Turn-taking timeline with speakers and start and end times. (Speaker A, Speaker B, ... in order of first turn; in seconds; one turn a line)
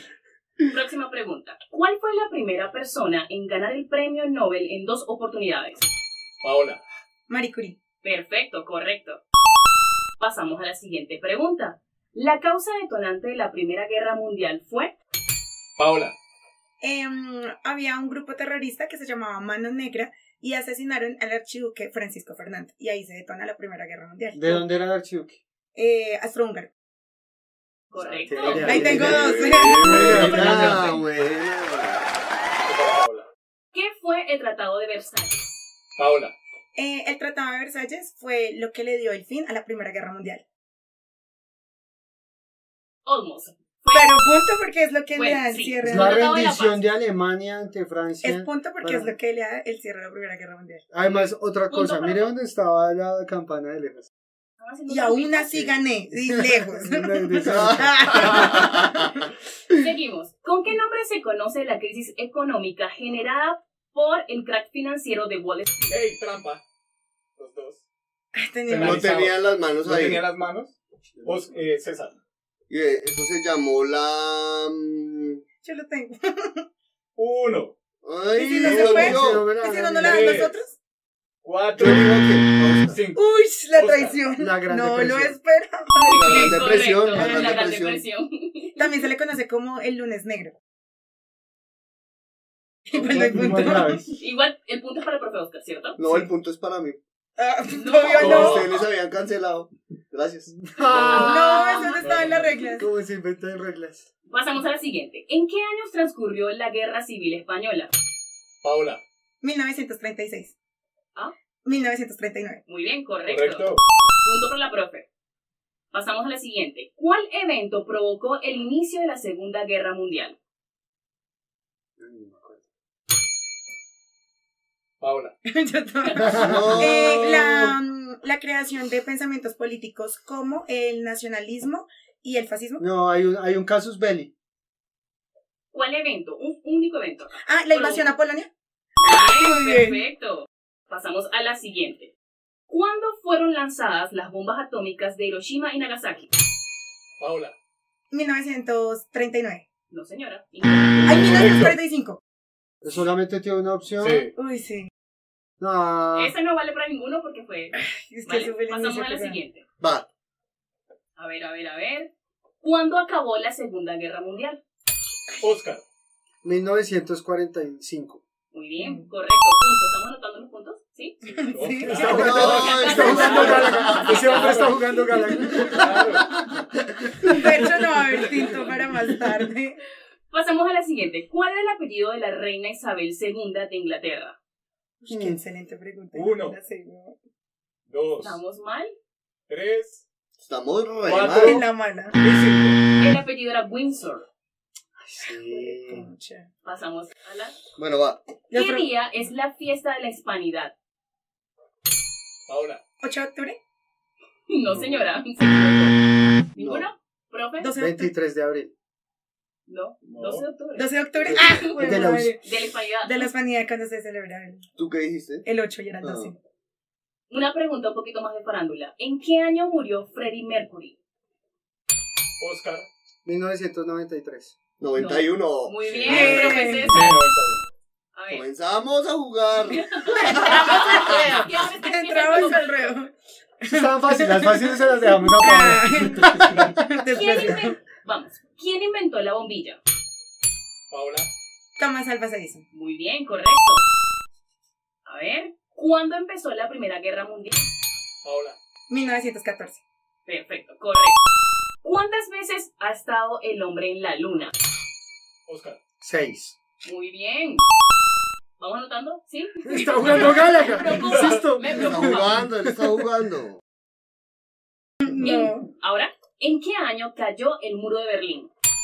Speaker A: 0.7-5.9
Speaker B: 6.4-6.8
Speaker C: 7.3-7.8
Speaker A: 8.0-9.2
Speaker A: 10.2-14.9
Speaker B: 15.8-16.1
Speaker C: 16.8-24.7
Speaker D: 24.3-25.4
Speaker C: 25.8-26.7
Speaker A: 27.9-29.1
Speaker D: 27.9-30.9
Speaker B: 28.4-29.1
Speaker E: 28.6-32.2
Speaker C: 28.6-31.0
Speaker B: 30.0-30.7
Speaker B: 32.6-33.3
Speaker A: 33.7-35.6
Speaker B: 36.0-36.3
Speaker C: 36.8-40.4
Speaker A: 43.0-44.2
Speaker C: 43.9-46.4
Speaker A: 45.1-46.8
Speaker D: 45.8-49.1
Speaker C: 48.2-50.9
Speaker D: 50.9-54.1
Speaker A: 51.0-52.4
Speaker A: 54.6-55.5
Speaker C: 54.9-59.2
Speaker D: 56.2-58.5
Speaker E: 57.4-59.1
Speaker A: 59.7-65.9
Speaker B: 65.9-66.6
Speaker B: 67.4-67.8
Speaker C: 68.3-69.1
Speaker B: 68.7-72.1
Speaker E: 68.8-70.2
Speaker D: 71.1-71.6
Speaker E: 72.7-75.4
Speaker C: 75.6-76.6
Speaker B: 77.2-77.7
Speaker E: 78.0-79.5
Speaker C: 78.3-80.8
Speaker B: 78.6-79.1
Speaker D: 78.7-80.5
Speaker B: 80.0-80.6
Speaker B: 81.4-82.2
Speaker E: 81.8-83.0
Speaker B: 82.9-83.2
Speaker C: 83.1-87.6
Speaker B: 83.7-84.2
Speaker D: 84.4-85.4
Speaker A: 86.0-89.0
Speaker E: 86.1-88.0
Speaker C: 88.8-90.6
Speaker C: 92.9-94.0
Speaker D: 93.0-94.1
Speaker A: 94.1-96.0
Speaker E: 96.0-97.0
Speaker C: 97.4-98.7
Speaker A: 97.7-98.6
Speaker B: 98.1-98.8
Speaker E: 98.2-100.6
Speaker D: 100.5-104.1
Speaker B: 100.9-101.3
Speaker C: 101.0-102.9
Speaker A: 101.1-102.0
Speaker B: 102.0-102.6
Speaker A: 104.3-107.9
Speaker B: 108.6-109.0
Speaker C: 109.4-110.5
Speaker C: 111.6-112.6
Speaker A: 112.7-115.0
Speaker B: 113.3-113.8
Speaker A: 115.9-120.3
Speaker D: 122.0-122.6
Speaker B: 125.0-125.3
Speaker C: 125.5-132.8
Speaker D: 126.2-127.7
Speaker E: 126.3-127.7
Speaker D: 132.8-134.3
Speaker A: 135.7-138.1
Speaker C: 137.4-138.5
Speaker A: 139.0-142.1
Speaker C: 139.1-140.0
Speaker A: 142.7-146.3
Speaker B: 147.2-147.5
Speaker C: 148.1-149.7
Speaker A: 149.9-151.2
Speaker C: 151.0-152.2
Speaker B: 151.1-151.8
Speaker D: 152.8-154.3
Speaker B: 154.0-154.3
Speaker C: 154.4-154.9
Speaker D: 155.6-156.3
Speaker A: 156.1-159.7
Speaker C: 157.7-159.4
Speaker E: 159.8-160.1
Speaker A: 161.2-162.1
Speaker A: 162.6-164.6
Speaker B: 165.4-165.8
Speaker D: 166.4-168.2
Speaker A: 168.5-171.2
Speaker C: 168.8-169.1
Speaker C: 171.3-172.5
Speaker B: 171.3-174.8
Speaker D: 171.8-176.4
Speaker E: 172.0-173.8
Speaker A: 172.2-174.7
Speaker C: 175.4-175.8
Speaker B: 175.6-176.4
Speaker C: 177.2-179.8
Speaker A: 180.3-184.3
Speaker C: 185.0-187.2
Speaker B: 186.1-186.6
Speaker B: 187.9-188.4
Speaker A: 188.2-188.9
Speaker B: 189.5-190.0
Speaker E: 190.4-191.6
Speaker B: 191.1-191.7
Speaker C: 191.3-192.2
Speaker B: 192.2-192.8
Speaker A: 193.0-194.2
Speaker D: 195.0-196.1
Speaker C: 195.5-196.5
Speaker A: 196.6-197.6
Speaker E: 197.8-198.2
Speaker C: 198.5-198.9
Speaker A: 198.5-200.7
Speaker B: 202.5-202.8
Speaker C: 203.0-203.6
Speaker A: 204.5-206.0
Speaker D: 204.7-205.0
Speaker A: 206.5-207.7
Speaker E: 206.6-206.9
Speaker C: 207.6-208.1
Speaker D: 207.8-208.7
Speaker A: 209.7-213.3
Speaker B: 210.1-210.4
Speaker C: 210.7-212.4
Speaker E: 211.3-211.5
Speaker D: 211.7-212.4
Speaker C: 213.0-214.7
Speaker E: 214.8-215.5
Speaker C: 215.4-216.4
Speaker E: 216.0-216.3
Speaker A: 217.3-221.0
Speaker B: 222.4-222.9
Speaker D: 223.2-224.6
Speaker E: 224.8-226.8
Speaker A: 224.9-227.2
Speaker C: 226.0-227.0
Speaker B: 226.2-227.7
Speaker A: 228.2-228.5
Speaker E: 228.3-231.4
Speaker A: 229.7-233.0
Speaker C: 230.1-237.8
Speaker D: 233.7-236.8
Speaker B: 236.2-236.8
Speaker A: 237.1-239.8
Speaker B: 240.9-241.3
Speaker C: 241.8-242.7
Speaker A: 242.7-243.8
Speaker A: 245.0-247.7
Speaker B: 248.2-248.6
Speaker C: 248.9-249.8
Speaker A: 250.2-251.3
Speaker A: 251.8-254.5
Speaker B: 255.5-255.8
Speaker D: 256.0-256.6
Speaker A: 256.8-257.6
Speaker A: 258.6-262.4
Speaker D: 259.6-263.0
Speaker B: 260.1-260.4
Speaker B: 261.1-261.4
Speaker E: 261.7-263.6
Speaker C: 265.0-265.7
Speaker A: 265.2-268.5